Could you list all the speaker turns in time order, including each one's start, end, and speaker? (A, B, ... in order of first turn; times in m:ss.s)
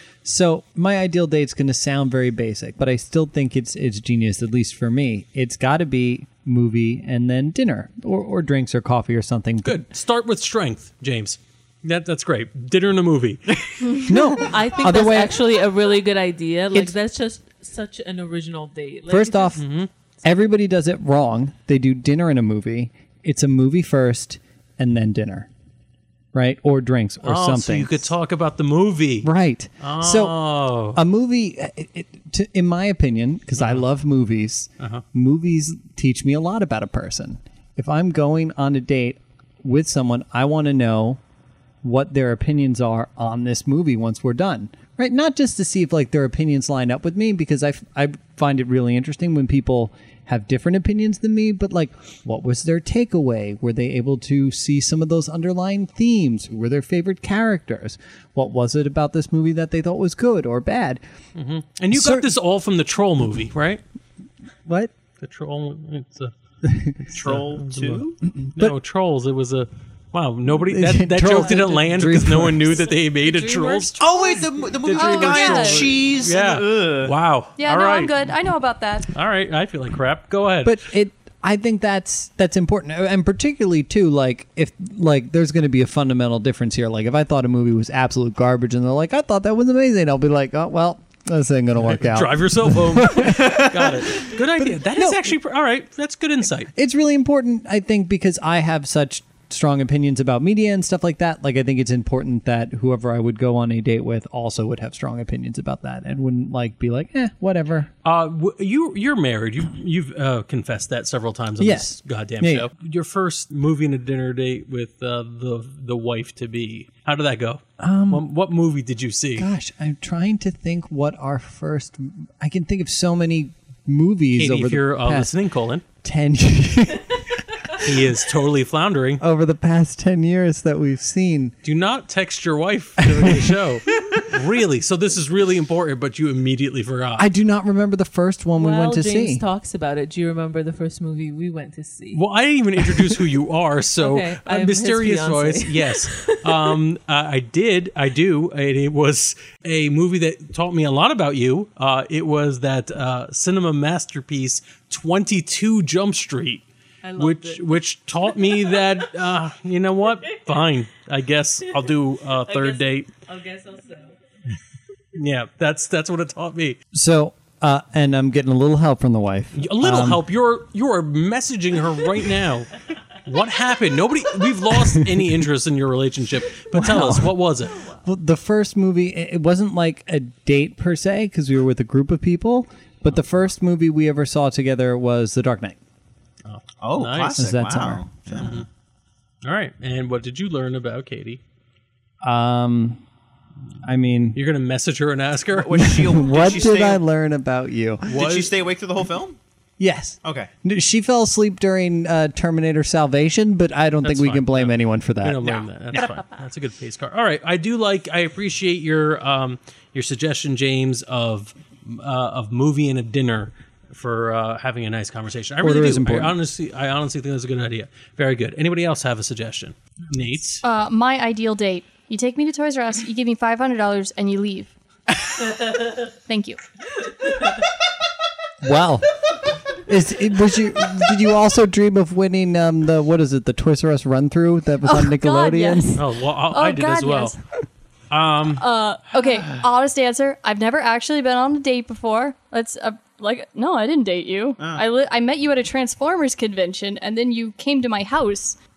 0:00.2-0:09.8 A
0:09.6-0:13.4 B
0:13.8-0:14.1 C
0:14.1-0:15.4 A
0:14.4-0:19.6 D
0:19.1-0:19.6 A
0:19.6-0:19.9 B
0:20.2-0:25.5 A
0:26.3-0:28.1 A
0:27.2-0:31.0 B
0:29.2-0:41.2 A
0:33.6-0:33.8 B
0:41.8-1:01.0 A
1:01.3-1:03.8 B
1:01.9-1:02.3 A
1:04.6-1:04.9 A
1:05.2-1:06.3 B
1:06.6-1:06.9 A
1:07.0-1:14.0 B
1:07.1-1:08.2 E
1:08.4-1:08.8 A
1:10.6-1:12.8 A
1:12.8-1:15.9 C
1:14.0-1:17.1 E
1:14.8-1:18.1 B
1:17.6-1:19.1 C
1:19.1-1:20.7 B
1:20.6-1:33.7 A
1:31.8-1:36.7 B
1:34.6-1:35.2 A
1:36.7-1:47.9 A
1:48.0-1:59.5 B
1:51.6-1:52.7 A
1:57.8-1:58.2 A
1:59.4-2:05.3 A
2:04.3-2:05.8 B
2:06.0-2:07.9 A
2:07.8-2:09.2 B
2:09.2-2:11.5 A
2:11.6-2:17.2 B
2:13.0-2:13.4 A
2:17.2-2:19.4 A
2:18.5-2:22.2 D
2:22.1-2:36.6 B
2:24.0-2:26.8 D
2:37.0-2:39.0 D
2:37.2-2:43.1 B
2:42.4-2:44.1 D
2:45.1-2:46.8 B
2:46.9-2:50.2 A
2:49.6-2:57.8 B
2:54.8-2:55.1 A
2:56.7-3:05.8 A
3:06.4-3:07.5 B
3:06.8-3:08.6 E
3:07.4-3:08.5 A
3:08.4-3:08.7 B
3:09.4-3:11.4 B
3:12.2-3:13.0 A
3:13.8-3:14.4 A
3:14.3-3:15.9 B
3:15.5-3:17.0 E
3:15.8-3:18.1 A
3:18.0-3:18.5 B
3:18.1-3:19.4 E
3:19.8-3:25.4 A
3:20.2-3:20.5 E
3:24.0-3:40.6 B
3:25.4-3:26.1 E
3:35.6-3:36.4 A
3:40.6-3:44.7 C
3:46.3-3:46.6 C
3:48.6-3:49.2 A
3:49.7-3:56.0 A
3:54.8-3:57.4 C
3:55.9-3:57.3 B
3:58.1-3:58.6 B
3:58.5-4:08.6 C
4:04.6-4:04.8 E